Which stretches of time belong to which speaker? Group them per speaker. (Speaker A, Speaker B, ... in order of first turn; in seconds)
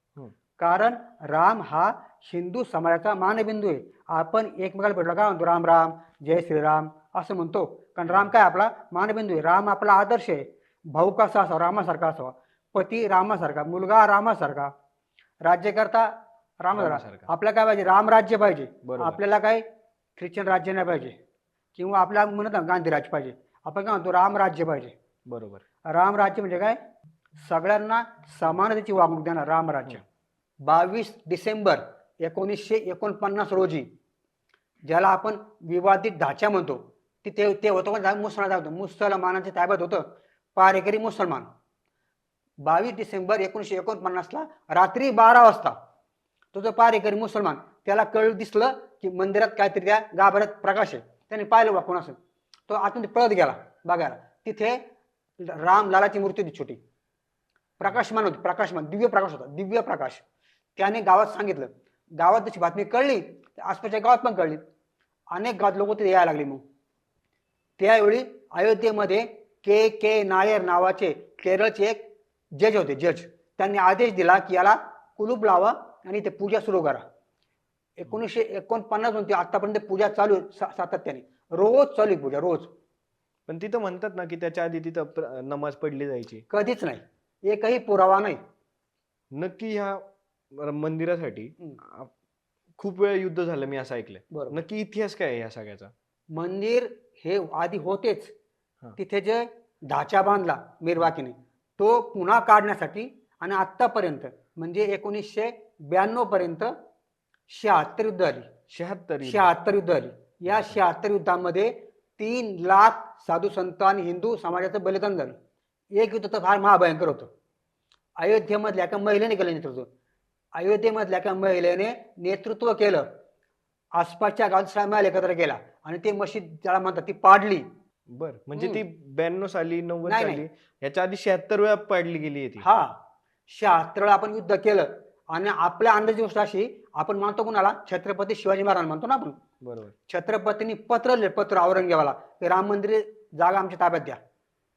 Speaker A: 0.6-14.7, 15.4-19.6, 20.1-21.2, 21.7-24.9, 25.9-26.8, 27.4-30.0, 30.6-33.9, 34.9-41.5, 42.6-45.8, 46.5-52.2, 52.7-54.9, 55.4-56.8, 57.8-60.2, 60.8-64.6, 65.3-66.6, 67.8-77.0, 78.0-82.7, 86.5-88.4, 94.3-94.6, 96.3-98.3, 99.0-106.7, 107.5-108.5, 109.2-115.3, 115.9-117.3, 118.2-119.9, 120.5-123.1, 123.9-127.7, 128.5-128.8, 130.1-130.4, 132.6-139.4, 140.1-144.2
Speaker B: 16.7-17.3, 18.8-19.2, 25.3-25.6, 83.5-86.5, 89.3-92.1, 92.8-95.9, 108.7-109.5, 110.5-110.8, 128.1-132.7, 139.6-139.9